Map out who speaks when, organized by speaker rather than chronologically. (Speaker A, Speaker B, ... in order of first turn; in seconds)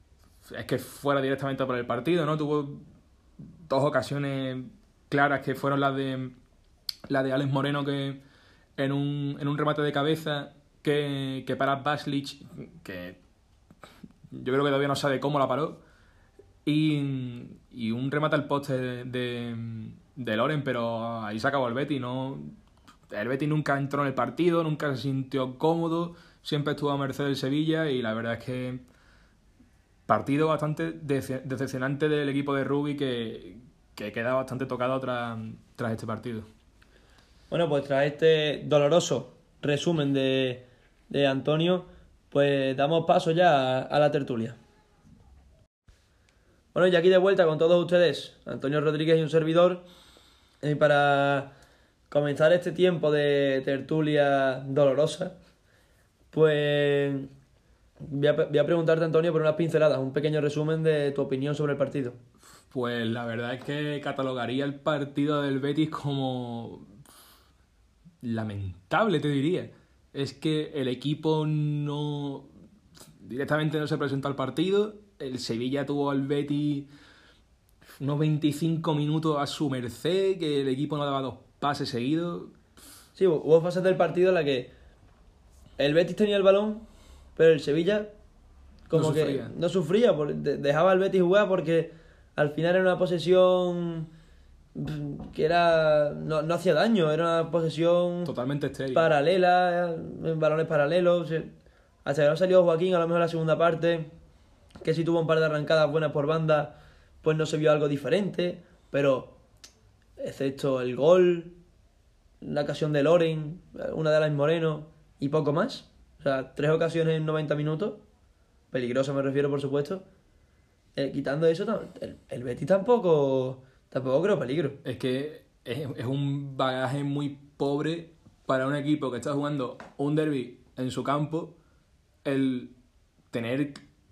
Speaker A: 0.5-2.8, 3.7-6.3, 7.1-8.2, 8.8-13.2, 14.3-15.8, 16.6-22.6, 23.1-28.8, 30.1-36.5, 62.7-66.9, 68.2-72.5, 73.2-76.9, 78.0-82.5, 88.9-89.5, 98.2-99.1, 124.8-131.5, 132.2-132.7, 133.3-133.8
Speaker B: 37.5-44.6, 46.7-49.8, 50.6-51.5, 52.1-55.3, 56.3-57.3, 58.0-62.2, 83.2-84.7, 85.8-88.1, 88.9-94.1, 94.7-98.3, 98.9-101.5, 102.0-104.1, 104.8-109.4, 110.2-111.6, 112.4-118.0, 118.7-120.0, 121.0-124.8